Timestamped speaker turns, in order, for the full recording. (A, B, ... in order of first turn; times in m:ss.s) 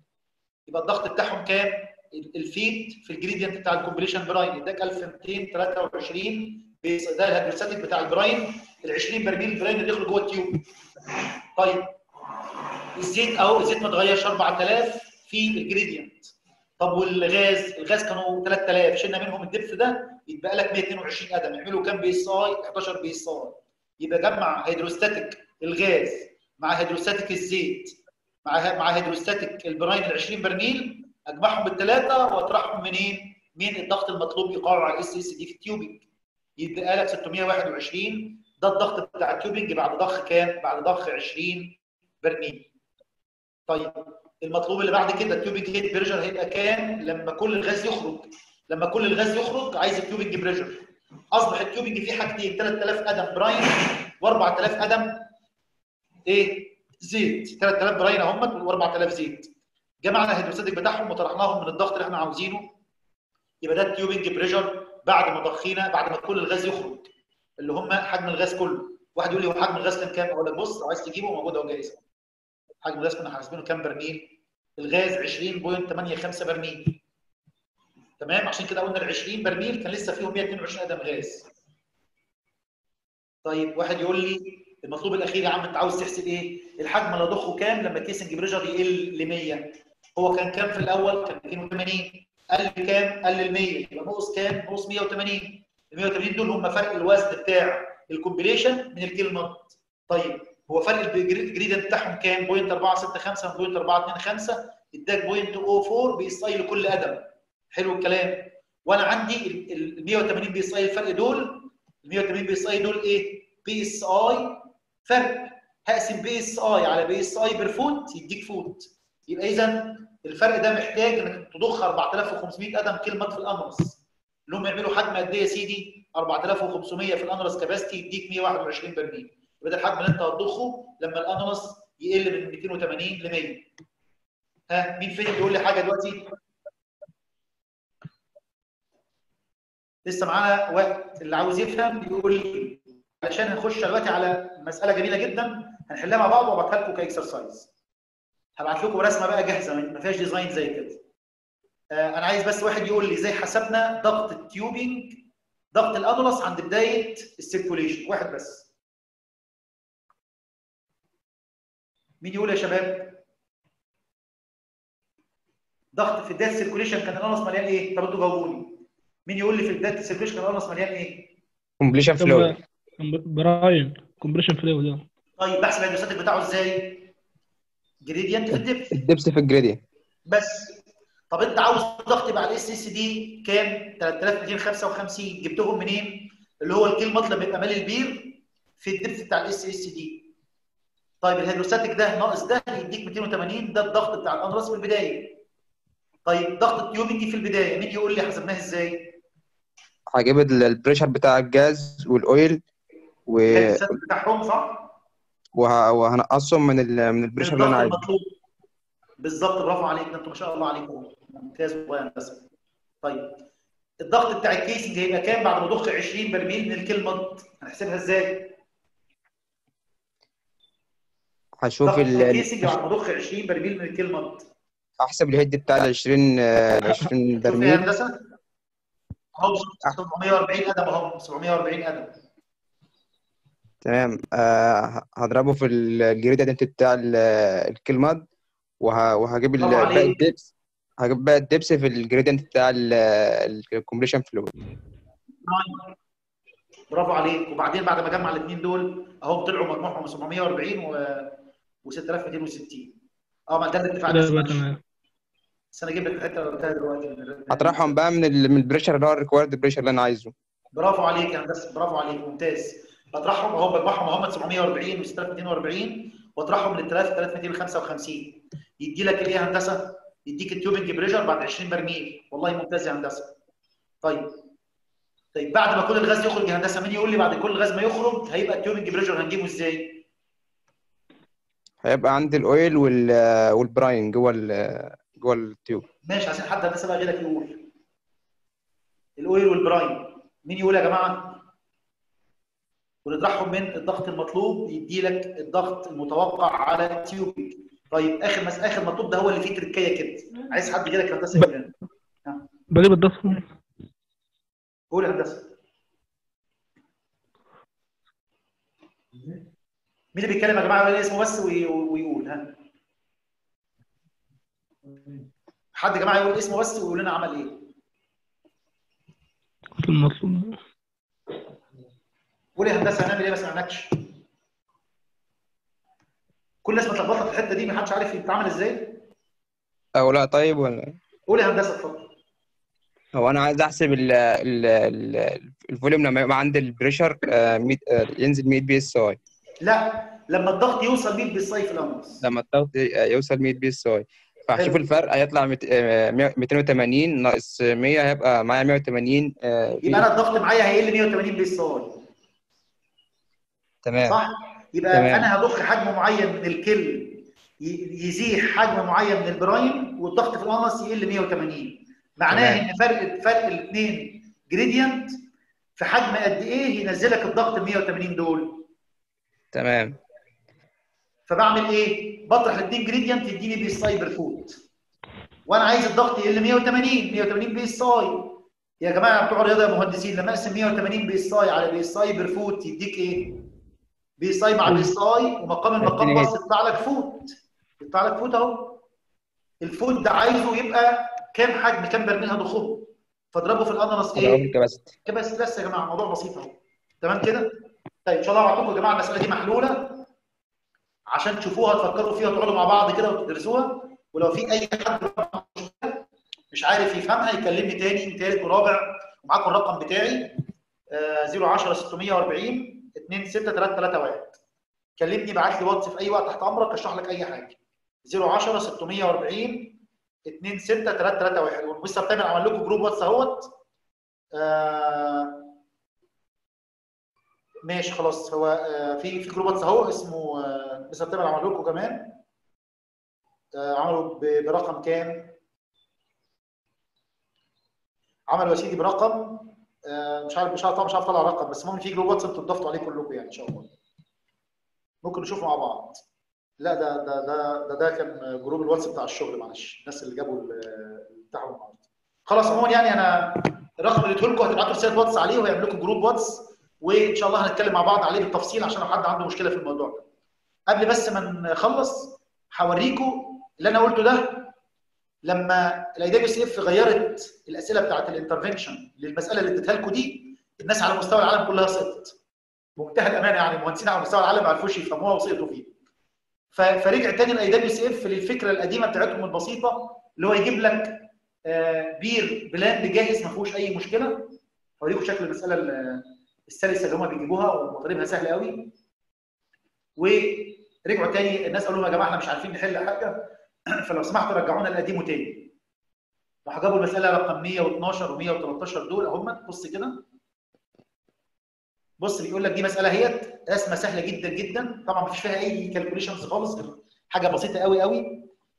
0:00.7-0:10.6 A
0:11.6-0:11.9 A
0:13.0-0:36.0 A
0:36.6-0:42.7 A
0:43.7-0:50.8 A
0:51.3-0:55.3 A
0:56.3-0:59.5 A
1:00.0-1:02.7 A
1:03.6-1:12.0 A
1:12.8-1:17.0 A
1:18.2-1:21.5 A
1:23.4-2:13.7 A
2:14.7-2:16.3 A
2:20.1-2:27.7 A
2:28.6-2:31.0 A
2:31.9-2:35.2 A
2:35.7-2:38.7 A
2:42.2-2:43.2 A
2:46.0-2:51.3 A
2:51.8-2:52.6 B
2:52.2-2:55.0 C
2:55.4-2:57.1 A
2:58.0-2:59.0 A
2:58.9-2:59.8 B
3:00.3-3:00.8 A
3:01.3-3:10.3 A
3:11.2-3:15.4 A
3:16.3-3:19.1 A
3:20.1-3:22.6 B
3:23.3-3:23.9 B
3:23.5-3:24.9 A
3:25.6-3:28.0 B
3:27.4-3:28.3 A
3:29.2-3:32.5 A
3:33.0-3:33.4 A
3:34.0-3:38.6 A
3:41.6-3:42.7 B
3:41.8-3:44.5 A
3:45.0-3:47.8 B
3:46.9-3:48.2 A
3:49.4-3:52.2 A
3:53.8-3:58.3 B
3:58.8-4:00.5 B
3:59.6-4:00.2 A
4:01.0-4:04.5 B
4:05.4-4:05.9 A
4:06.9-4:12.9 A
4:13.5-4:14.7 A
4:14.1-4:14.8 C
4:15.7-4:18.0 A
4:17.5-4:20.3 B
4:20.8-4:33.3 A
4:34.0-4:34.3 A
4:35.3-4:40.0 A
4:41.8-4:45.8 B
4:46.0-4:47.7 A
4:49.2-4:51.4 A
4:53.0-5:01.7 A
5:02.7-5:03.4 C
5:04.9-5:05.5 A
5:10.2-5:12.6 A
5:15.8-5:17.6 A
5:19.8-5:20.6 C
5:22.6-5:24.0 A
5:26.6-5:29.0 A
5:30.0-5:31.0 B
5:31.3-5:32.1 A
5:33.2-5:39.2 B
5:39.6-5:42.2 A
5:42.2-5:50.1 B
5:44.6-5:44.8 A
5:49.8-5:52.0 A
5:53.8-5:54.2 B
5:54.0-6:05.2 A
5:54.9-5:55.3 B
6:02.3-6:02.6 B
6:05.8-6:08.7 A
6:09.5-6:10.0 B
6:11.3-6:14.6 A
6:15.5-6:23.3 A
6:24.2-6:28.8 A
6:25.8-6:26.4 B
6:29.6-6:34.5 A
6:34.2-6:34.9 B
6:35.0-6:40.1 A
6:41.1-6:50.4 A
6:50.9-6:54.4 A
6:55.0-7:03.5 A
7:04.4-7:05.5 A
7:07.6-7:12.2 A
7:13.6-7:15.4 A
7:18.3-7:23.7 A
7:25.0-7:26.0 A
7:26.6-7:40.0 A
7:40.7-7:44.5 A
7:45.2-7:52.2 A
7:52.8-7:55.7 A
7:56.5-8:08.7 A
8:10.0-8:15.5 A
8:16.5-8:20.0 A
8:22.0-8:28.3 A